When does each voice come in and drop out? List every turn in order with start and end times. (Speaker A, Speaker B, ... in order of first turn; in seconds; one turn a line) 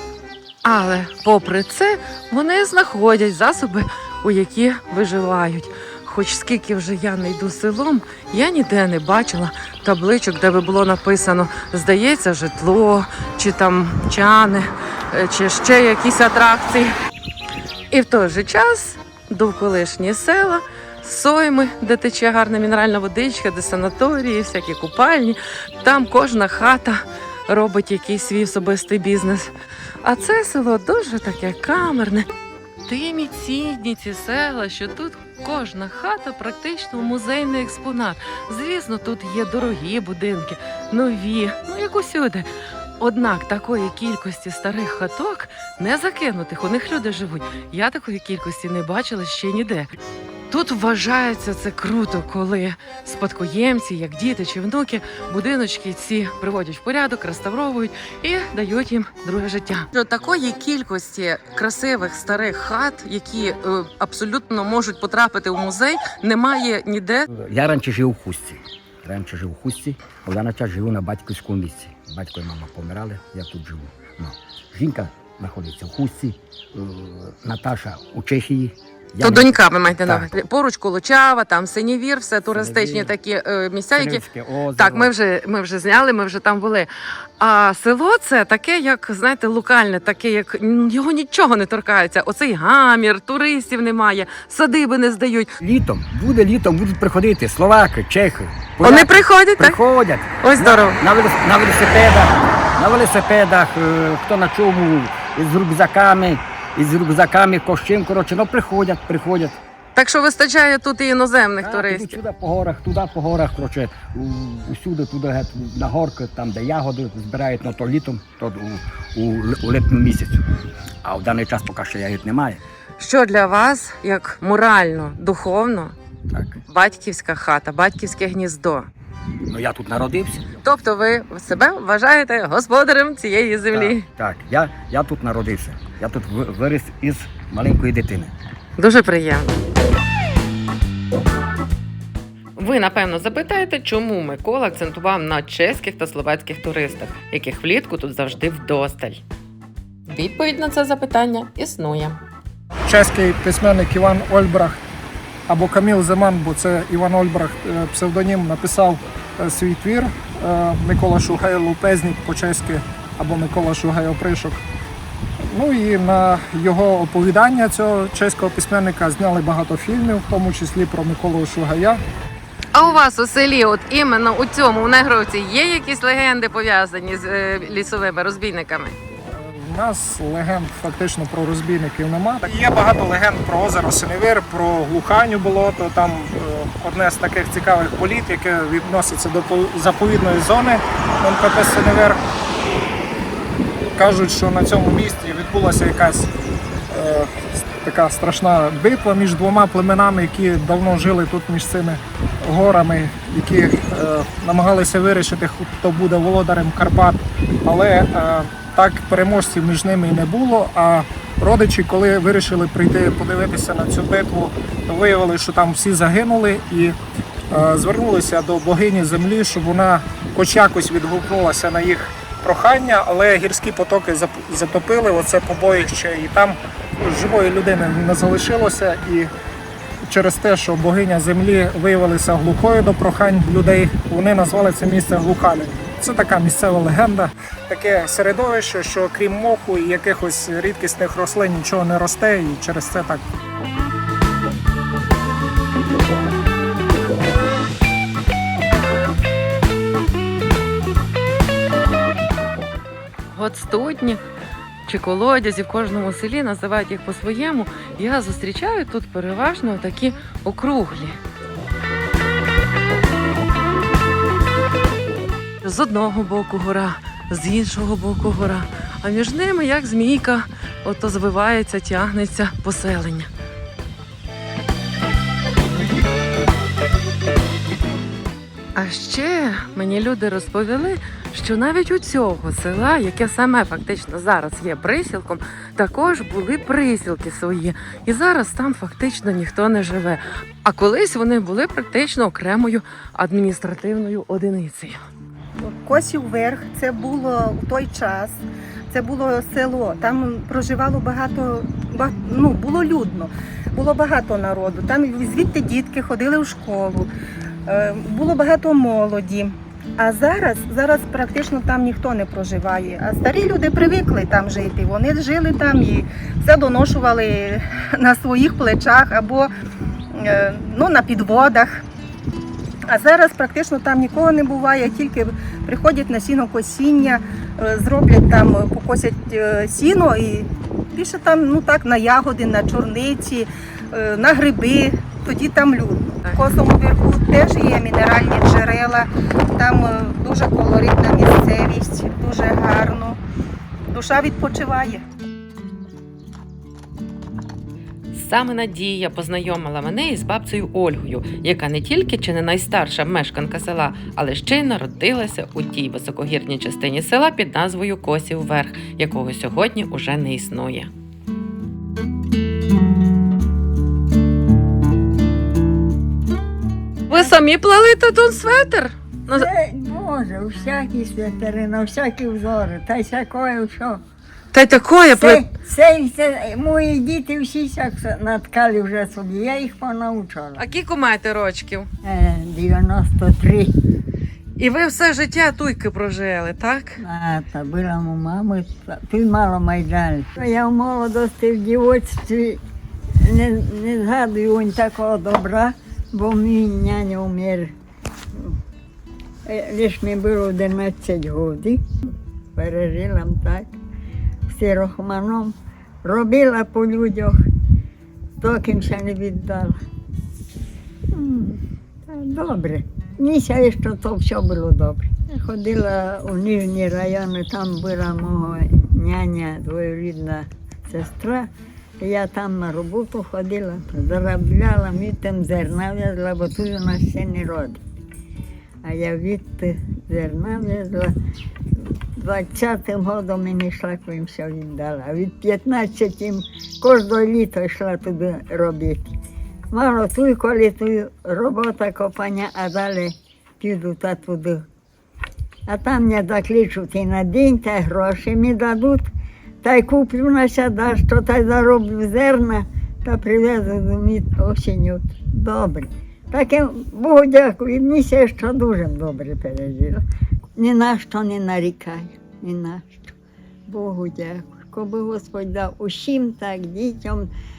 Speaker A: 0.6-16.9
Speaker A: 17.9-29.5
Speaker A: 30.0-32.3
Speaker A: 32.9-42.5
Speaker A: 43.0-49.9
Speaker A: 50.5-67.3
Speaker B: 67.3-80.3
Speaker A: 79.2-84.2
Speaker B: 82.5-83.1
Speaker B: 83.9-85.1
Speaker A: 84.8-86.9
Speaker A: 87.4-95.5
Speaker B: 95.6-109.6
Speaker A: 98.8-99.8
Speaker A: 100.4-101.0
Speaker A: 110.0-112.2
Speaker B: 111.6-120.5
Speaker B: 121.0-122.6
Speaker A: 123.0-125.9
Speaker B: 126.3-126.6
Speaker A: 126.7-128.9
Speaker B: 129.5-130.5
Speaker A: 130.6-134.0
Speaker B: 133.7-138.3
Speaker A: 138.8-139.6
Speaker A: 142.6-149.2
Speaker A: 150.1-152.2
Speaker C: 152.9-154.8
Speaker C: 155.5-164.6
Speaker C: 165.4-172.0
Speaker A: 172.7-179.0
Speaker C: 179.3-192.2
Speaker C: 193.9-196.3
Speaker C: 196.9-216.9
Speaker C: 217.5-229.3
Speaker C: 230.0-243.2
Speaker A: 253.3-254.2
Speaker A: 254.9-261.2
Speaker A: 265.6-273.3
Speaker A: 278.8-295.0
Speaker D: 295.6-307.1
Speaker D: 307.6-319.5
Speaker D: 320.1-321.8
Speaker D: 322.9-343.2
Speaker D: 343.9-345.0
Speaker A: 348.1-360.9
Speaker A: 367.1-369.5
Speaker E: 369.3-374.0
Speaker A: 374.5-375.4
Speaker E: 375.1-380.6
Speaker A: 380.6-381.9
Speaker E: 382.0-383.7
Speaker A: 384.6-387.0
Speaker E: 387.0-392.6
Speaker E: 393.2-397.7
Speaker E: 399.4-401.8
Speaker E: 402.6-403.8
Speaker E: 404.5-407.4
Speaker E: 408.4-409.8
Speaker E: 411.1-421.5
Speaker E: 422.0-427.8
Speaker E: 428.8-431.1
Speaker E: 431.8-439.1
Speaker E: 439.7-444.6
Speaker E: 445.7-449.1
Speaker E: 449.6-460.0
Speaker E: 460.6-463.1
Speaker E: 463.7-467.3